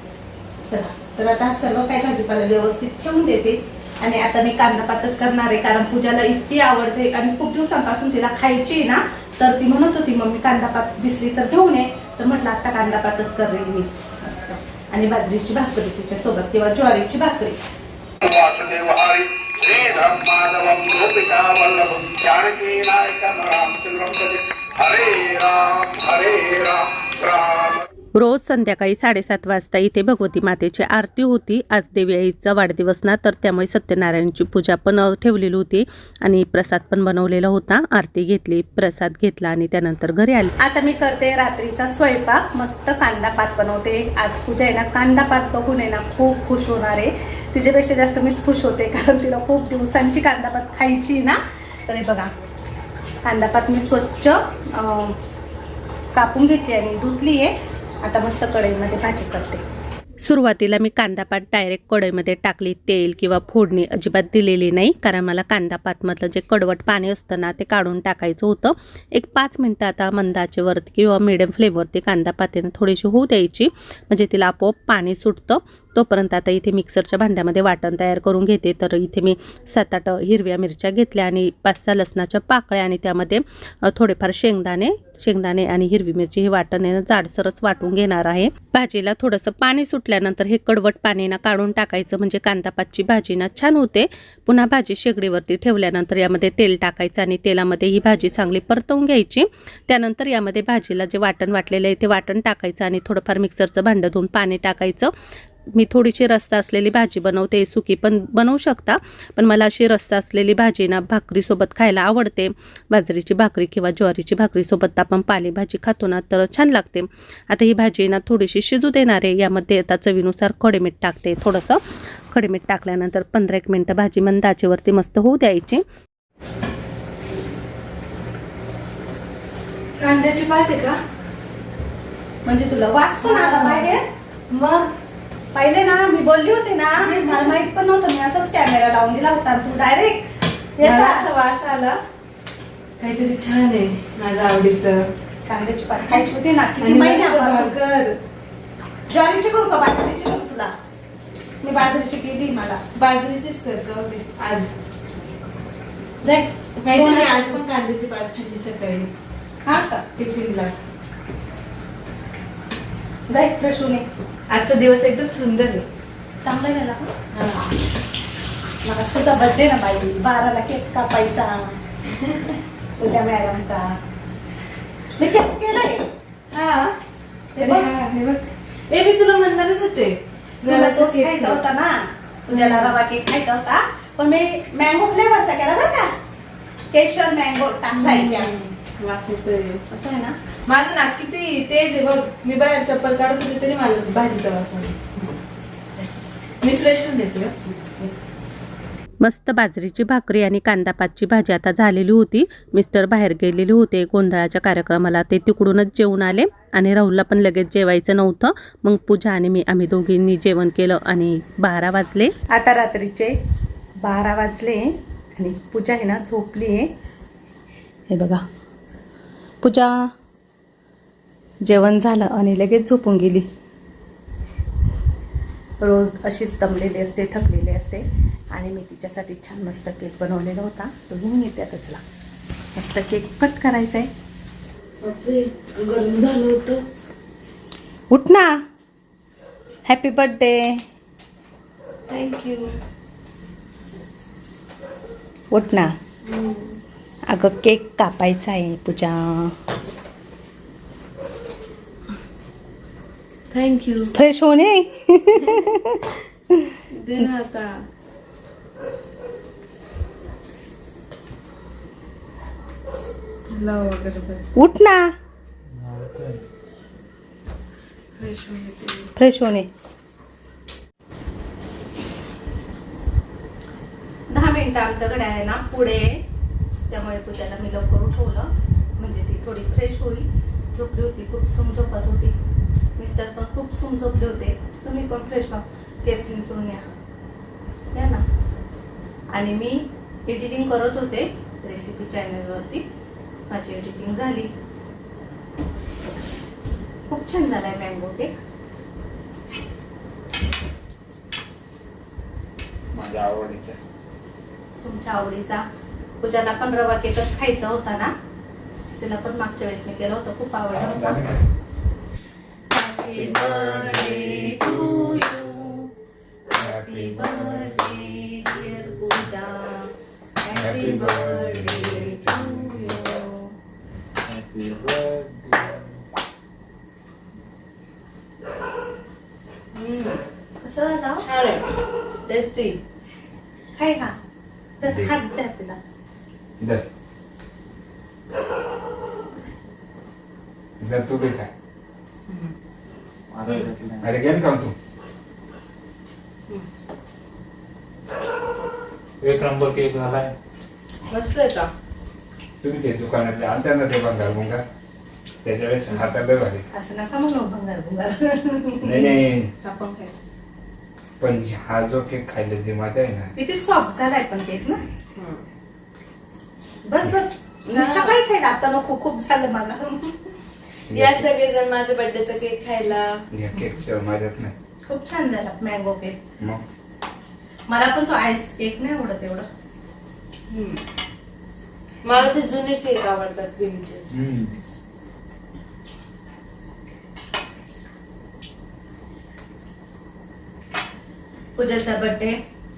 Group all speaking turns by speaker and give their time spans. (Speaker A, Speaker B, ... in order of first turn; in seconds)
Speaker A: 0.7-17.6, 28.1-52.3, 53.2-55.2, 56.1-59.6, 60.2-105.1, 105.8-121.8, 122.3-125.8, 132.4-134.0, 135.5-140.2, 140.8-141.2, 145.5-147.7, 149.1-150.7, 151.6-152.8, 156.2-157.6, 159.6-160.0, 163.3-164.1, 166.4-167.1, 168.8-171.8, 173.0-174.0, 175.2-176.1, 177.6-177.9, 180.6-186.1, 186.9-188.5, 189.9-190.4, 199.2-213.4, 214.0-216.9, 218.1-218.4, 219.6-220.1, 221.6-223.5, 225.8-232.0, 232.8-234.1, 238.1-238.5, 239.9-240.8, 245.5-245.9, 247.3-249.6, 254.1-257.3, 264.6-265.0, 269.1-269.7, 274.3-276.2, 276.9-282.4, 283.0-286.9, 287.9-288.2, 289.3-292.9, 293.5-294.5, 297.1-298.3, 304.8-305.6, 306.2-308.1, 309.0-311.2, 312.7-315.9, 316.5-319.9, 320.4-323.4, 330.6-331.2, 333.8-334.1, 334.8-335.8, 356.7-359.1, 363.4-364.8, 366.9-370.3, 374.9-376.2, 377.7-379.5, 391.6-392.4
Speaker B: 18.2-27.8, 265.8-266.4, 324.2-325.8, 343.3-344.1, 349.2-350.3
Speaker C: 130.0-131.0, 133.2-133.9, 134.5-134.9, 137.0-137.5, 140.8-142.0, 143.0-145.1, 146.8-148.2, 152.9-154.7, 156.8-159.1, 160.2-160.8, 164.5-165.9, 167.3-167.7, 176.5-177.0, 177.6-181.6, 182.5-183.0, 187.9-189.8, 190.7-195.4, 196.6-198.1, 235.0-236.8, 242.1-242.8, 246.2-246.8, 253.5-254.1, 256.9-257.8, 263.5-264.5, 268.2-269.1, 320.8-321.4, 329.8-330.2, 331.2-331.7, 332.2-332.8, 343.4-343.7, 351.1-351.7, 359.6-360.1, 365.1-365.4, 367.7-368.2, 370.9-373.2, 380.5-380.8, 382.0-384.1
Speaker D: 302.9-303.8, 310.7-311.5, 313.1-315.5, 316.6-319.1, 320.5-323.1, 334.9-335.1, 336.6-336.9, 340.8-341.5, 344.0-344.8, 352.6-354.6, 355.4-356.7, 358.8-359.5, 361.2-363.3, 370.9-371.3, 373.3-374.5, 384.1-384.5